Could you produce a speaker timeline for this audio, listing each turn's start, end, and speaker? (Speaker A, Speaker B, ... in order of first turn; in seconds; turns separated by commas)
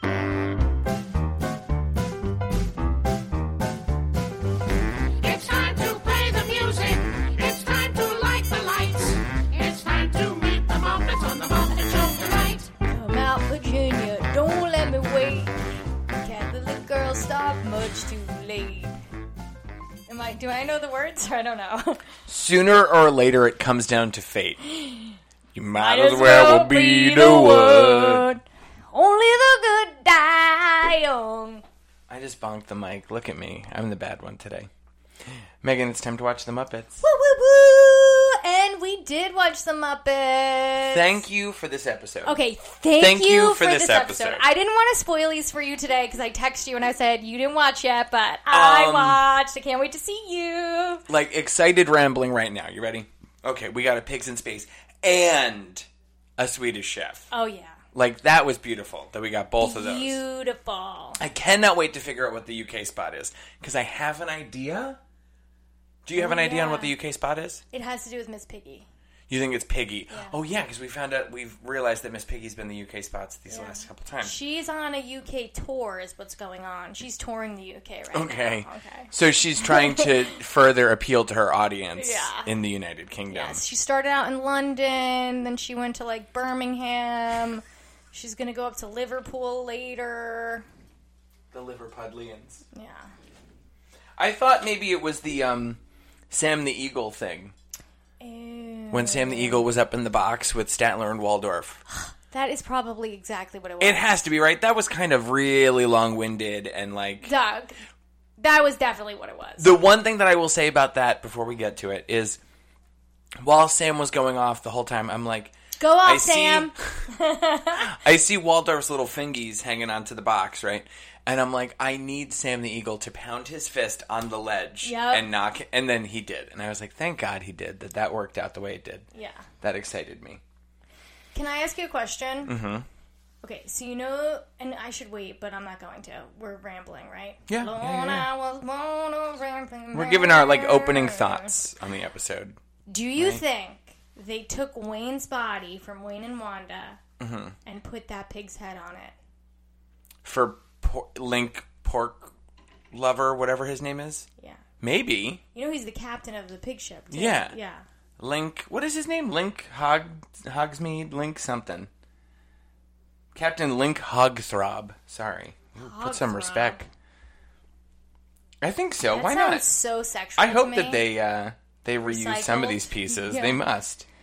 Speaker A: 5.2-12.7, Speaker B: 12.8-18.9, Speaker B: 20.1-22.1, Speaker C: 22.3-24.6, Speaker B: 24.7-25.2, Speaker C: 25.5-28.3, Speaker B: 25.8-31.6, Speaker C: 32.1-34.7, Speaker C: 35.6-37.0, Speaker B: 37.0-41.2, Speaker C: 40.9-42.4, Speaker B: 42.2-51.0, Speaker C: 43.0-44.5, Speaker C: 48.5-49.2, Speaker C: 51.1-55.9, Speaker C: 56.4-57.3, Speaker B: 57.3-57.8, Speaker C: 57.9-60.2, Speaker B: 59.6-61.2, Speaker C: 61.2-65.0, Speaker C: 66.0-67.6, Speaker B: 66.2-66.9, Speaker B: 67.7-68.9, Speaker C: 69.3-74.3, Speaker B: 70.1-70.4, Speaker B: 73.5-80.2, Speaker C: 78.1-83.6, Speaker B: 82.0-82.5, Speaker B: 83.3-90.6, Speaker C: 91.5-92.6, Speaker B: 92.7-93.1, Speaker C: 94.2-97.5, Speaker B: 98.2-99.7, Speaker C: 98.9-101.8, Speaker B: 101.9-104.1, Speaker C: 103.8-107.3, Speaker B: 107.2-107.8, Speaker B: 108.4-109.8, Speaker C: 109.6-112.4, Speaker C: 113.4-117.0, Speaker B: 115.8-117.9, Speaker C: 117.8-129.1, Speaker B: 124.8-125.3, Speaker B: 129.1-129.4, Speaker C: 129.6-130.4, Speaker B: 131.3-132.5, Speaker C: 132.4-132.9, Speaker B: 133.4-141.5, Speaker C: 137.5-138.3, Speaker C: 139.9-142.6, Speaker B: 142.9-147.0, Speaker C: 143.2-143.4, Speaker C: 147.2-147.6, Speaker B: 147.7-149.2, Speaker C: 150.2-152.3, Speaker C: 152.9-154.3, Speaker C: 154.8-155.4, Speaker B: 155.5-157.8, Speaker C: 157.1-157.6, Speaker C: 158.2-161.9, Speaker C: 163.3-166.9, Speaker B: 165.8-166.8, Speaker C: 168.6-169.7, Speaker B: 169.1-171.0, Speaker C: 170.4-174.1, Speaker B: 172.0-173.6